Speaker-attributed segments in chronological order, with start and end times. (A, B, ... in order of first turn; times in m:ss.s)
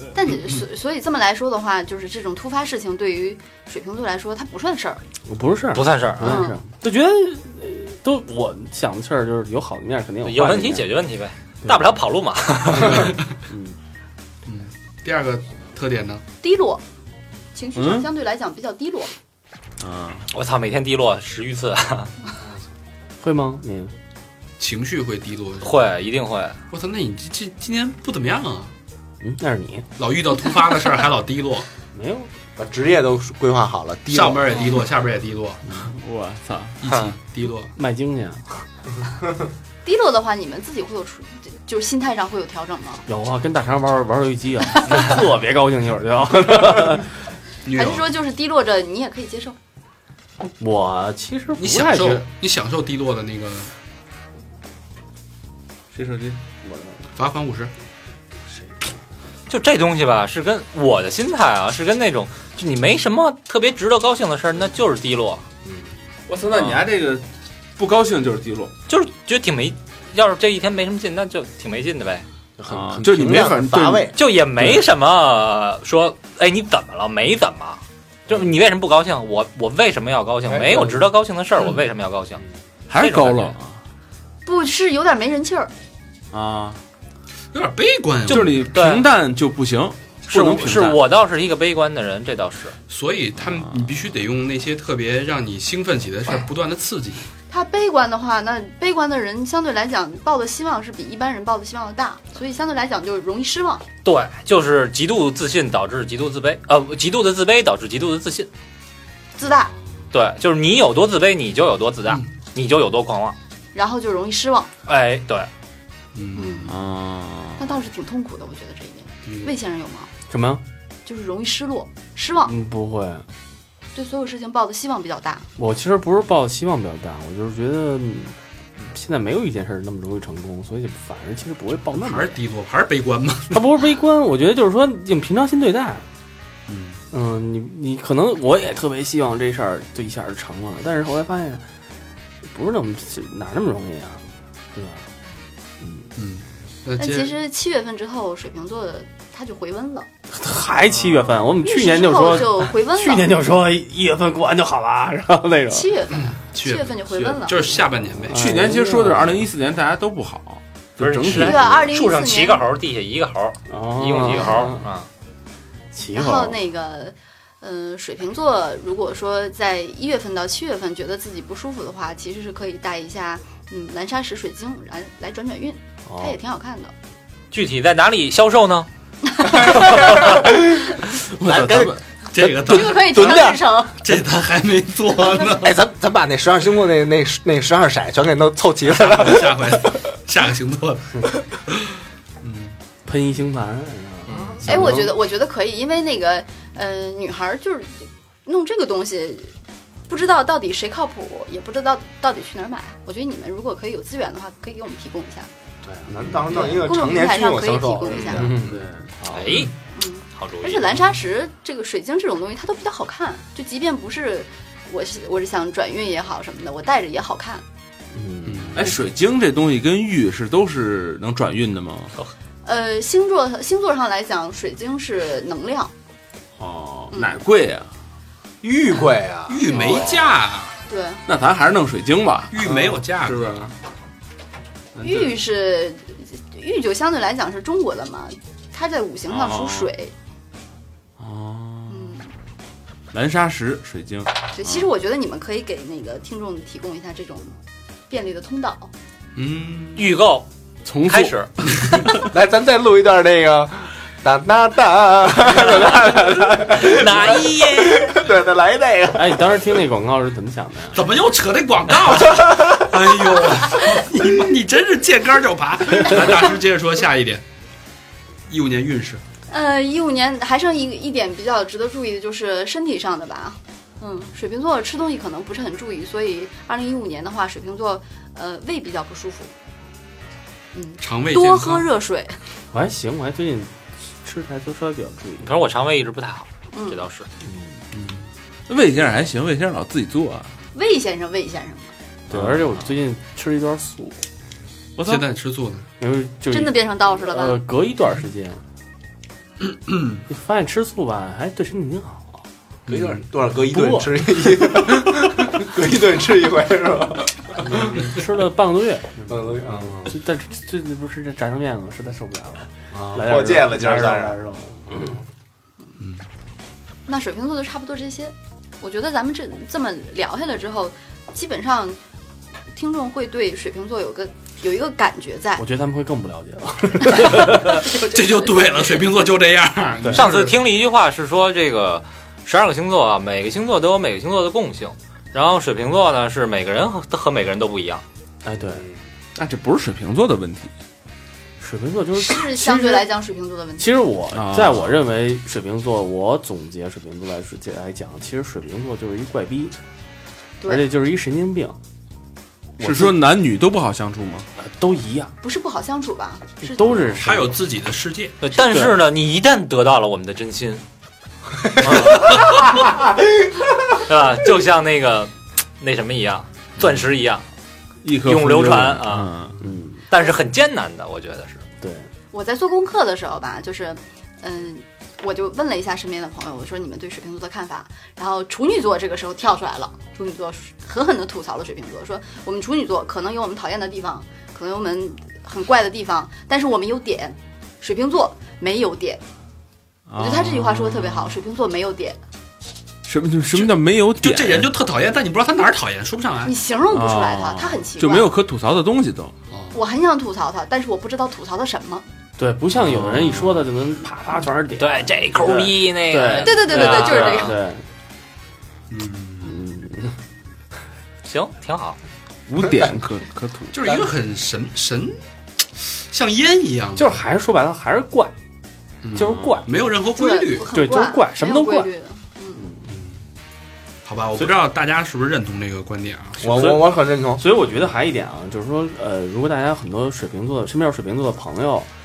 0:00.1-0:05.0 A
0:05.3-0:10.8 B
0:05.7-0:06.4 C
0:06.2-0:06.6 A
0:10.2-0:13.0 C
0:12.8-0:13.2 D
0:13.5-0:13.8 B
0:14.4-0:16.2 D
0:16.4-0:16.8 A
0:17.5-0:19.1 A
0:17.8-0:18.1 E
0:19.8-0:20.3 E
0:20.3-0:22.1 C
0:23.2-0:23.9 B
0:24.6-0:25.7 D
0:25.6-0:26.6 C
0:26.7-0:28.7 D
0:29.2-0:29.8 B
0:30.0-0:31.7 D
0:31.9-0:32.3 B
0:32.6-0:34.5 F
0:34.1-0:35.6 D
0:35.8-0:36.8 E
0:36.8-0:37.7 D
0:37.8-0:38.6 B
0:39.8-0:43.0 A
0:43.1-0:47.1 B
0:44.9-0:45.1 A
0:47.6-0:48.0 D
0:47.7-0:49.6 A
0:50.4-0:52.2 B
0:51.6-0:53.7 D
0:55.9-0:56.4 E
0:57.2-0:57.7 D
0:59.5-1:05.4 C
1:06.3-1:07.2 E
1:07.8-1:08.7 E
1:08.9-1:12.2 C
1:12.6-1:14.1 F
1:12.7-1:14.1 E
1:14.1-1:22.4 C
1:20.5-1:20.8 F
1:22.9-1:23.8 E
1:23.0-1:23.5 C
1:24.4-1:25.7 A
1:26.3-1:26.8 E
1:27.5-1:28.5 D
1:28.2-1:31.0 E
1:28.3-1:29.0 C
1:30.3-1:32.8 C
1:32.9-1:37.3 D
1:33.4-1:33.9 E
1:37.5-1:43.8 A
1:44.0-1:48.5 C
1:49.4-1:49.7 A
1:49.4-1:50.0 D
1:50.1-1:53.4 C
1:53.7-1:54.7 A
1:54.8-1:55.5 C
1:56.1-1:56.7 D
1:56.4-1:56.7 A
1:56.6-1:57.7 E
1:57.6-2:00.1 A
1:59.2-1:59.5 D
2:00.3-2:00.6 B
2:01.0-2:02.5 A
2:02.4-2:03.2 B
2:03.9-2:05.5 A
2:05.6-2:12.3 B
2:11.9-2:13.6 D
2:13.5-2:16.0 B
2:16.7-2:17.0 D
2:17.1-2:21.6 B
2:22.4-2:25.0 B
2:25.8-2:26.1 B
2:26.2-2:27.3 D
2:27.0-2:30.1 A
2:30.3-2:35.9 B
2:31.6-2:33.3 A
2:35.7-2:37.8 A
2:36.1-2:38.4 D
2:38.3-2:39.5 B
2:38.3-2:41.9 E
2:41.0-2:45.1 C
2:41.3-2:42.6 A
2:43.7-2:44.8 B
2:44.3-2:44.7 A
2:45.9-2:46.6 B
2:46.1-2:56.9 A
2:56.1-2:56.4 B
2:57.5-2:58.9 C
2:59.4-3:00.5 A
2:59.8-3:00.5 F
3:01.3-3:02.0 E
3:01.4-3:03.6 F
3:02.3-3:03.5 D
3:02.6-3:04.0 A
3:04.0-3:05.8 D
3:05.2-3:05.5 A
3:05.5-3:09.9 F
3:08.9-3:11.3 D
3:12.4-3:12.7 D
3:13.0-3:15.1 B
3:14.3-3:14.9 D
3:14.6-3:19.5 A
3:20.1-3:25.5 A
3:26.1-3:28.8 F
3:26.5-3:28.5 A
3:28.3-3:29.1 E
3:29.3-3:29.7 C
3:29.9-3:37.6 A
3:30.4-3:30.9 C
3:38.1-3:38.9 B
3:38.4-3:38.9 D
3:38.7-3:42.1 E
3:42.6-3:45.9 A
3:46.6-3:47.9 E
3:47.1-3:47.4 A
3:48.6-3:49.7 F
3:49.5-3:50.8 D
3:49.7-3:50.4 E
3:50.9-3:51.2 A
3:51.3-3:53.7 E
3:52.5-3:53.6 D
3:55.0-3:55.4 E
3:55.0-4:00.1 A
3:59.3-3:59.9 E
4:01.2-4:02.2 E
4:01.9-4:02.3 A
4:03.1-4:04.9 E
4:04.5-4:07.6 A
4:08.1-4:08.9 A
4:09.4-4:10.1 D
4:10.0-4:10.5 C
4:10.8-4:11.4 E
4:11.0-4:11.5 C
4:12.2-4:19.4 F
4:15.5-4:18.2 C
4:19.1-4:21.0 B
4:20.9-4:27.4 D
4:28.5-4:29.2 D
4:29.5-4:39.5 A
4:40.7-4:42.4 A
4:41.0-4:41.9 D
4:42.7-4:45.5 B
4:45.4-4:47.3 C
4:46.7-4:47.0 A
4:47.4-4:47.8 B
4:47.9-4:48.2 D
4:48.7-4:50.5 E
4:50.7-4:51.9 A
4:52.3-4:54.2 B
4:52.3-4:52.6 E
4:55.0-4:55.2 E
4:55.0-4:55.8 D
4:56.0-4:58.6 B
4:56.5-4:57.6 A
4:59.9-5:00.2 D
5:00.3-5:02.4 B
5:02.8-5:03.2 D
5:02.9-5:08.0 F
5:03.7-5:04.1 B
5:07.7-5:15.2 B
5:09.3-5:10.1 F
5:12.9-5:14.4 F
5:16.0-5:16.2 D
5:17.1-5:22.0 A
5:22.7-5:25.6 A
5:25.6-5:27.8 B
5:27.7-5:30.6 D
5:27.9-5:28.9 A
5:30.2-5:38.0 C
5:38.4-5:38.8 B
5:39.3-5:40.7 E
5:41.6-5:43.1 B
5:42.2-5:43.9 A
5:43.8-5:49.8 B
5:44.3-5:45.0 E
5:50.6-5:51.8 B
5:52.8-5:54.5 E
5:52.8-5:53.1 B
5:54.6-5:55.3 B
5:55.4-5:56.9 A
5:56.6-5:57.5 B
5:57.0-5:58.4 D
5:58.4-6:00.8 C
5:58.7-5:59.0 B
6:02.0-6:02.6 D
6:02.0-6:02.3 C
6:04.0-6:07.4 C
6:08.0-6:09.6 E
6:08.2-6:09.3 C
6:09.6-6:10.0 B
6:10.1-6:11.6 C
6:11.8-6:12.1 B
6:12.3-6:29.2 A
6:30.1-6:31.4 E
6:30.2-6:32.2 A
6:33.0-6:34.7 E
6:33.5-6:36.5 D
6:36.4-6:38.3 A
6:36.9-6:39.3 E
6:39.5-6:39.8 D
6:39.7-6:42.0 A
6:42.4-6:47.8 B
6:43.0-6:43.5 E
6:44.8-6:47.6 C
6:46.3-6:47.6 A
6:48.9-6:49.6 D
6:49.4-6:50.2 B
6:51.2-6:52.0 C
6:52.5-6:54.0 E
6:53.7-6:55.2 D
6:55.8-6:57.2 D
6:57.0-6:58.3 B
6:59.0-7:00.7 D
6:59.1-6:59.7 B
6:59.2-6:59.8 E
7:00.1-7:02.6 A
7:00.7-7:01.9 B
7:02.6-7:02.8 B
7:02.9-7:03.2 D
7:04.0-7:06.5 D
7:06.4-7:07.4 F
7:06.5-7:11.9 B